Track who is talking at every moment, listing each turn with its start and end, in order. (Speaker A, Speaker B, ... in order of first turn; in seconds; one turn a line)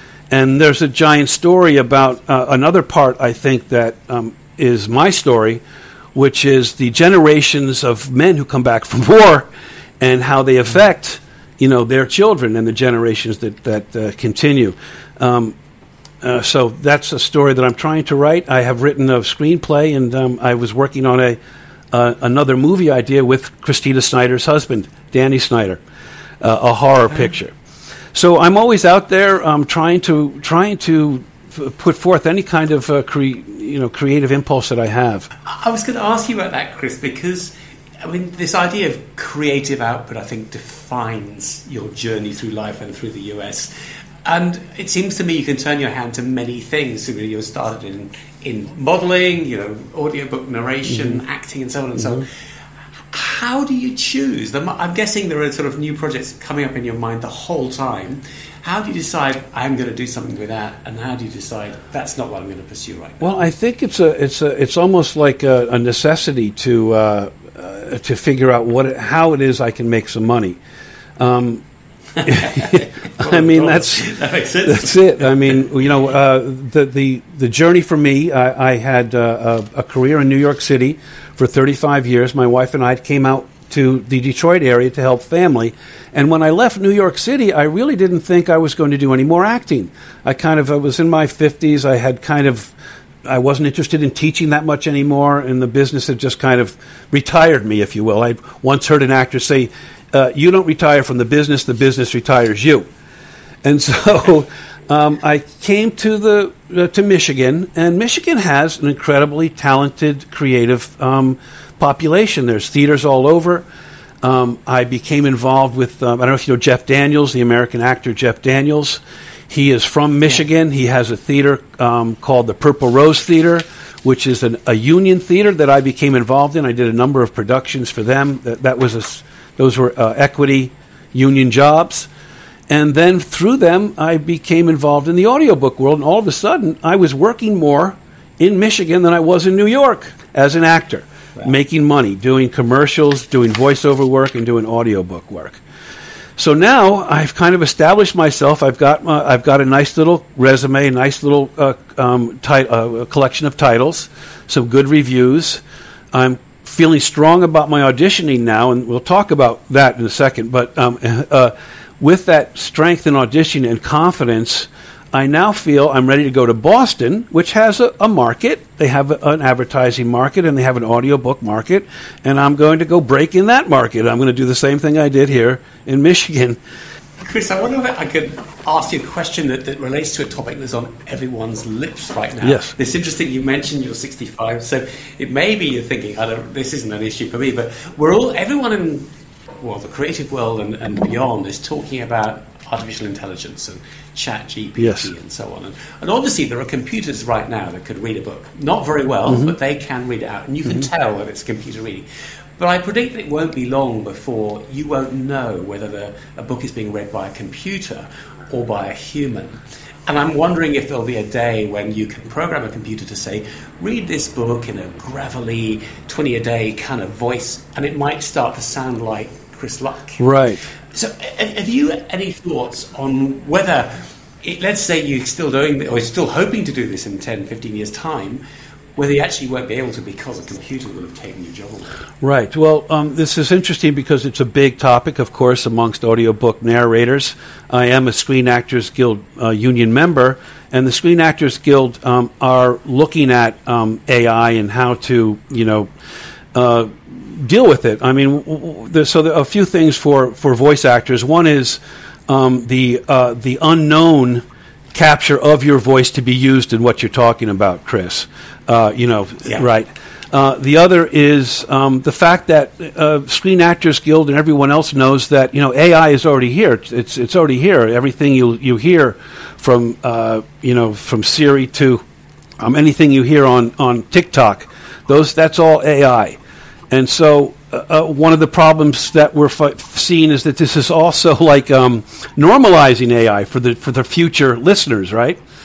Speaker A: 0.3-5.6
Speaker A: 6.2-9.5
Speaker A: 10.0-15.6
Speaker A: 16.2-21.4
Speaker A: 21.9-25.8
Speaker A: 26.4-27.5
Speaker A: 28.1-35.3
Speaker B: 35.5-43.7
Speaker B: 44.2-52.3
Speaker B: 53.1-63.3
Speaker A: 63.2-70.6
Speaker A: 71.2-71.6
Speaker A: 72.2-74.1
Speaker B: 72.4-75.3
Speaker A: 74.7-92.7
Speaker A: 93.3-102.9
Speaker A: 103.6-113.7
Speaker A: 114.2-132.1
Speaker A: 132.7-145.6
Speaker A: 146.4-155.6
Speaker A: 156.1-176.6
Speaker B: 177.2-189.1
Speaker A: 182.4-182.7
Speaker B: 189.6-202.1
Speaker A: 194.8-195.1
Speaker A: 199.3-199.5
Speaker B: 202.6-220.2
Speaker A: 220.2-220.7
Speaker B: 220.8-228.4
Speaker B: 229.0-231.9
Speaker A: 232.2-245.9
Speaker A: 246.5-272.0
Speaker A: 272.6-276.4
Speaker A: 276.9-285.4